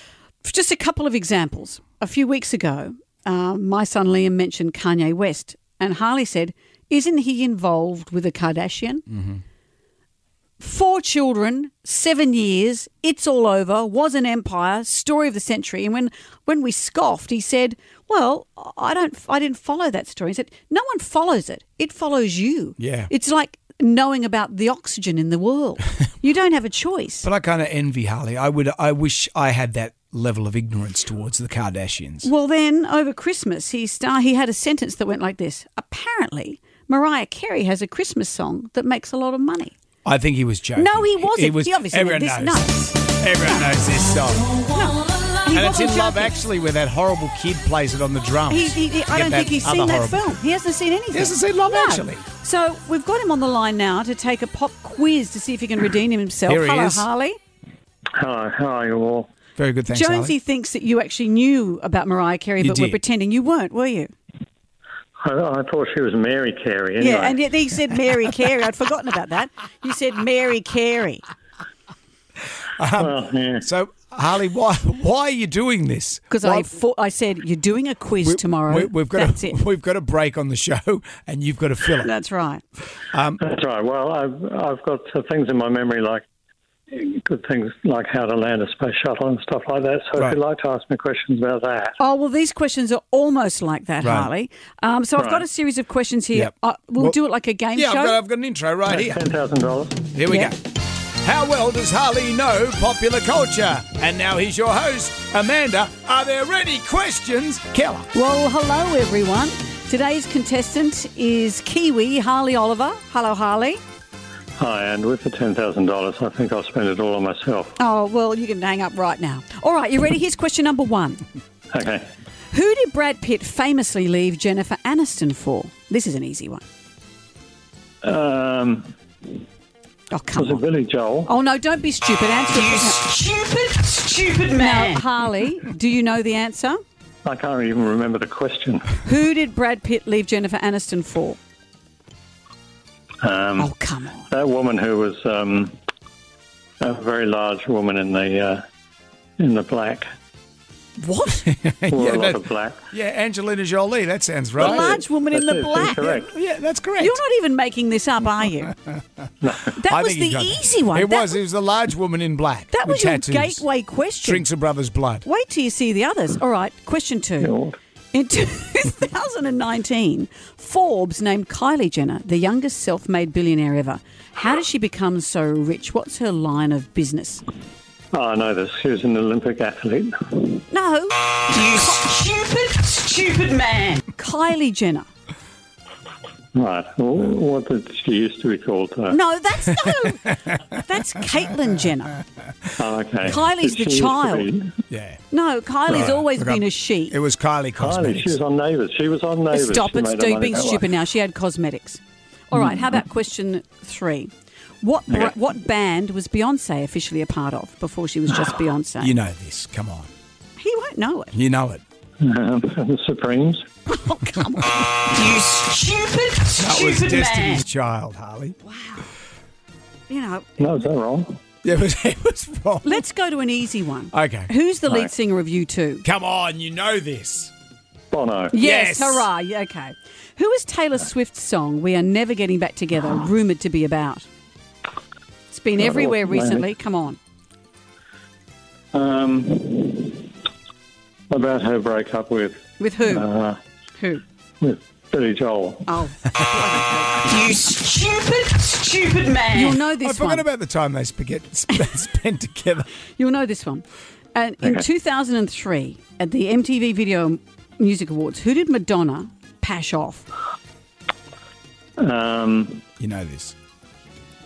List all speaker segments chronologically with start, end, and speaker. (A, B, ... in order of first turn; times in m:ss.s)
0:00.4-0:09.2 A
0:10.6-0:27.3 A
0:22.8-0:23.1 B
0:27.2-0:32.3 B
0:32.2-0:39.8 A
0:40.0-0:44.5 B
0:40.8-0:43.6 A
0:44.7-0:46.3 A
0:45.5-0:50.3 B
0:48.5-0:57.4 A
0:51.1-0:52.2 B
0:56.5-0:57.1 B
0:58.2-0:59.3 C
0:59.6-1:00.4 B
0:59.9-1:04.1 A
1:02.6-1:03.0 B
1:05.2-1:07.4 C
1:07.0-1:11.2 A
1:12.8-1:16.7 B
1:13.0-1:13.7 C
1:16.3-1:19.6 A
1:18.2-1:22.1 B
1:22.0-1:22.6 A
1:23.1-1:23.4 B
1:23.4-1:26.2 C
1:26.9-1:32.0 C
1:32.0-1:38.2 A
1:34.0-1:34.3 B
1:35.2-1:35.4 C
1:36.3-1:37.2 B
1:37.7-1:39.2 B
1:38.9-1:40.0 C
1:40.1-1:40.6 B
1:40.3-1:40.5 A
1:41.2-1:48.1 B
1:48.1-1:53.8 A
1:54.6-1:57.8 C
1:57.8-2:01.2 A
2:01.7-2:02.1 C
2:02.5-2:06.6 A
2:08.0-2:09.3 C
2:10.1-2:10.6 A
2:10.4-2:11.3 C
2:11.3-2:13.2 A
2:13.4-2:14.4 D
2:14.4-2:16.8 A
2:17.2-2:19.0 C
2:19.0-2:21.4 A
2:23.2-2:23.7 C
2:23.6-2:24.3 A
2:24.3-2:25.8 C
2:26.8-2:28.6 C
2:29.4-2:30.1 C
2:31.0-2:31.5 A
2:31.4-2:35.0 B
2:31.9-2:32.8 C
2:34.6-2:36.3 C
2:34.6-2:36.2 A
2:36.1-2:37.2 B
2:37.0-2:38.8 A
2:39.4-2:39.7 C
2:39.7-2:41.4 A
2:39.8-2:43.6 B
2:42.7-2:44.5 A
2:44.2-2:45.2 B
2:45.2-2:47.5 A
2:47.4-2:47.8 C
2:48.1-2:57.4 A
2:58.1-3:00.6 C
3:00.7-3:02.4 A
3:02.8-3:04.0 D
3:04.0-3:05.1 A
3:06.6-3:09.2 C
3:09.1-3:12.2 A
3:12.8-3:14.7 C
3:13.2-3:14.5 A
3:14.9-3:15.2 B
3:15.3-3:17.2 A
3:15.9-3:18.4 B
3:17.8-3:20.9 C
3:19.5-3:24.3 A
3:24.8-3:29.1 A
3:29.0-3:30.1 B
3:30.6-3:31.3 A
3:31.3-3:31.8 B
3:32.2-3:33.7 C
3:33.9-3:35.2 A
3:35.7-3:36.0 D
3:36.5-3:38.6 B
3:38.6-3:39.1 A
3:40.1-3:40.5 A
3:40.6-3:41.4 C
3:41.6-3:43.0 B
3:42.8-3:46.0 A
3:44.1-3:44.5 B
3:46.0-3:47.5 B
3:48.1-3:48.6 C
3:48.5-3:54.3 A
3:48.5-3:49.3 B
3:55.5-3:57.2 A
3:55.8-3:56.6 C
3:58.9-4:00.3 C
4:01.3-4:03.6 C
4:02.8-4:03.3 A
4:04.0-4:04.2 A
4:04.6-4:05.9 C
4:05.9-4:07.5 A
4:07.4-4:09.3 D
4:09.4-4:10.5 A
4:09.7-4:12.9 B
4:13.2-4:20.3 A
4:22.0-4:22.8 C
4:23.0-4:23.6 B